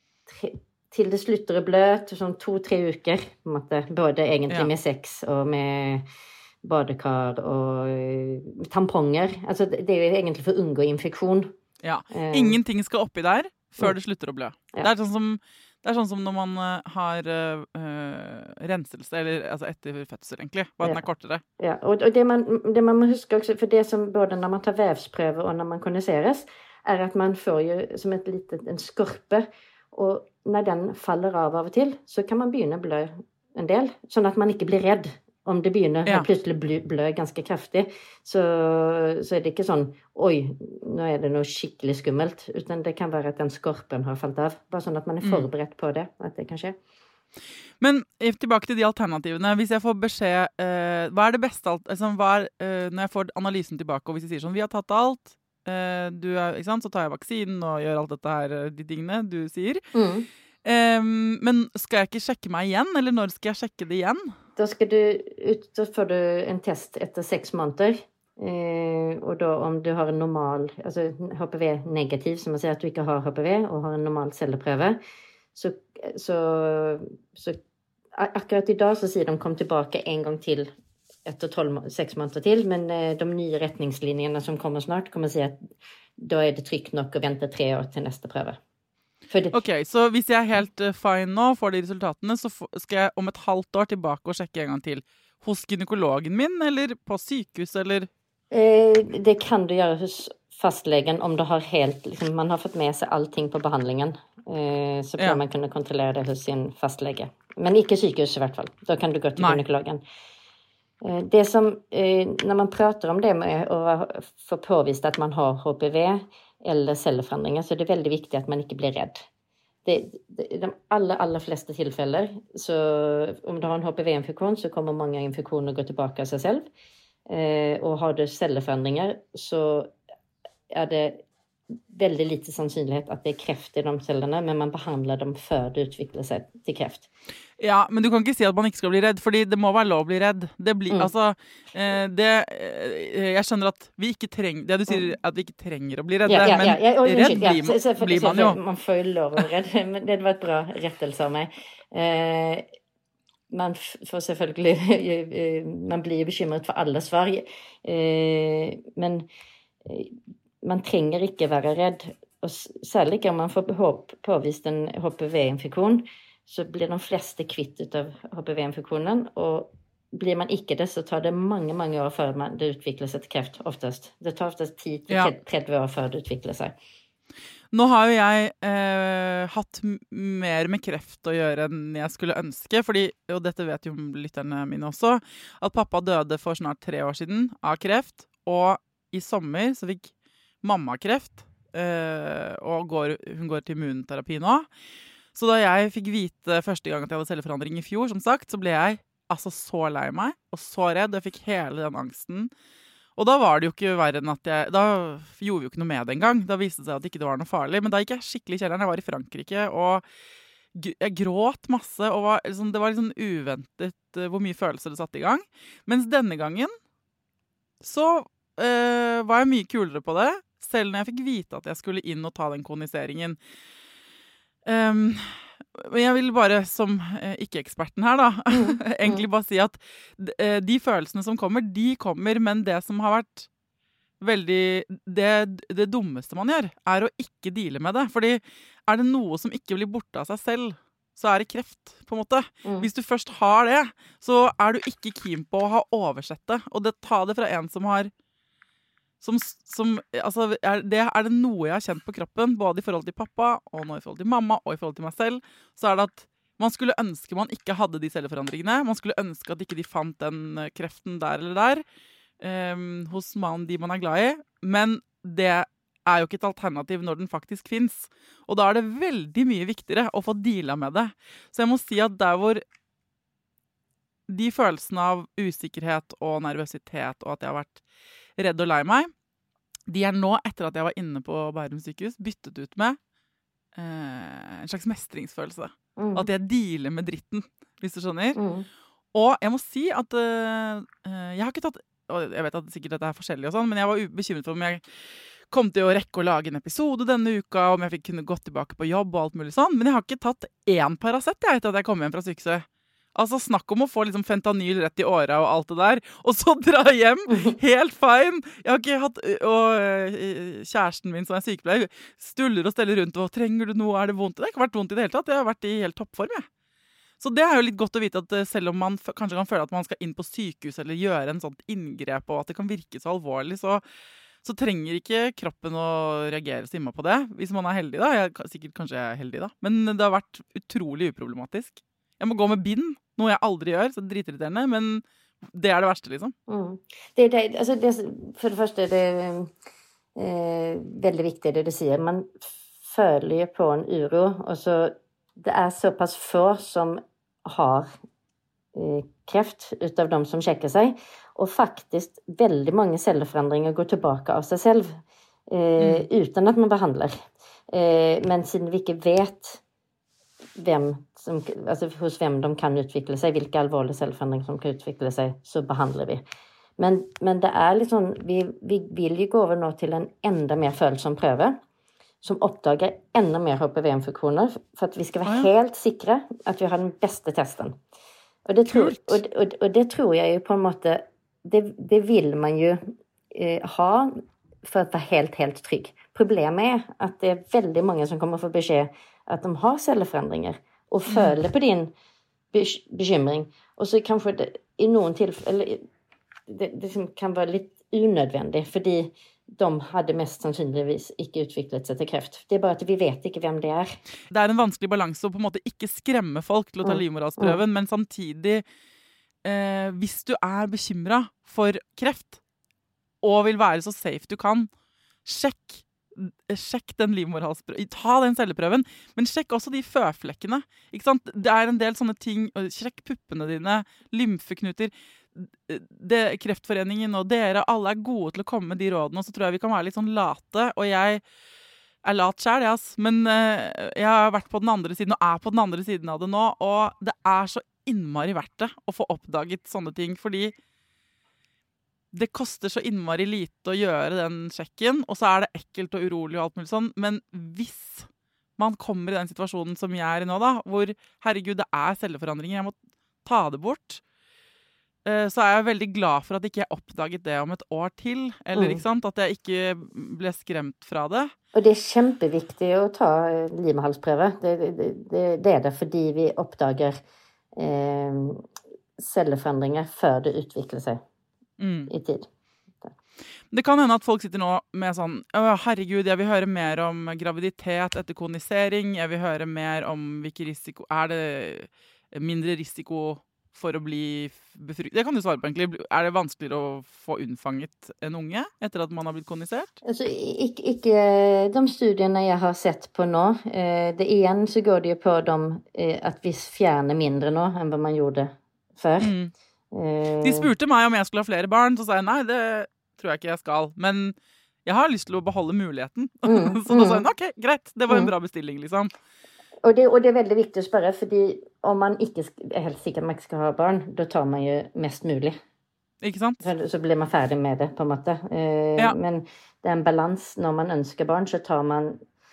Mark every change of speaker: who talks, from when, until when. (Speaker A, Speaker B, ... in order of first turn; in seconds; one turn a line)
Speaker A: 0.3-6.0
Speaker A: 6.6-11.5
Speaker B: 11.8-21.4
Speaker A: 12.1-12.6
Speaker A: 21.6-46.8
Speaker B: 47.8-59.9
Speaker A: 59.9-60.3
Speaker B: 60.6-64.3
Speaker A: 64.6-75.0
Speaker A: 75.5-77.6
Speaker A: 78.2-80.7
Speaker A: 81.2-85.6
Speaker A: 86.2-88.6
Speaker A: 89.3-89.6
Speaker B: 89.5-98.1
Speaker A: 98.5-110.0
Speaker B: 109.4-109.6
Speaker A: 111.0-119.2
Speaker A: 119.8-126.7
Speaker A: 127.3-129.9
Speaker A: 130.7-131.2
Speaker A: 131.9-137.1
Speaker B: 137.6-148.6
Speaker A: 146.3-152.7
Speaker A: 153.5-159.2
Speaker A: 159.8-176.8
Speaker B: 177.7-194.7
Speaker B: 195.3-202.5
Speaker B: 203.2-210.0
Speaker B: 210.8-216.8
Speaker B: 217.8-223.4
Speaker B: 224.7-233.5
Speaker A: 228.5-229.3
Speaker B: 234.2-248.1
Speaker A: 242.6-242.9
Speaker B: 249.2-261.8
Speaker B: 262.4-272.6
Speaker B: 274.3-277.8
Speaker B: 278.4-279.1
Speaker B: 279.9-283.0
Speaker B: 283.8-288.4
Speaker A: 286.0-286.3
Speaker A: 288.4-288.7
Speaker B: 289.1-294.8
Speaker B: 295.5-316.5
Speaker A: 307.3-307.6
Speaker B: 317.2-323.8
Speaker B: 324.4-336.4
Speaker A: 336.5-339.5
Speaker A: 340.2-347.9
Speaker A: 348.8-355.0
Speaker A: 355.5-357.1
Speaker B: 355.8-356.1
Speaker A: 357.7-359.6
Speaker A: 360.6-366.2
Speaker A: 366.8-371.6
Speaker A: 372.2-377.8
Speaker B: 375.2-375.5
Speaker A: 378.5-382.8
Speaker B: 378.7-379.2
Speaker A: 383.3-384.1
Speaker A: 384.6-391.9
Speaker B: 391.1-391.4
Speaker A: 392.5-395.8
Speaker A: 396.5-404.0
Speaker B: 404.3-408.6
Speaker A: 406.8-407.6
Speaker B: 409.4-412.4
Speaker B: 413.2-414.7
Speaker B: 415.2-431.2
Speaker B: 432.0-440.6
Speaker B: 442.1-448.1
Speaker B: 448.6-454.0
Speaker B: 455.1-461.3
Speaker A: 458.5-458.8
Speaker A: 461.5-467.0
Speaker A: 467.6-468.4
Speaker A: 469.0-471.0
Speaker B: 471.6-471.9
Speaker A: 471.9-472.3
Speaker B: 473.5-489.7
Speaker A: 489.9-499.1
Speaker B: 499.0-499.3
Speaker A: 499.7-500.5
Speaker B: 500.2-508.9
Speaker A: 506.2-507.1
Speaker A: 509.6-515.4
Speaker B: 516.0-516.4
Speaker A: 516.4-522.0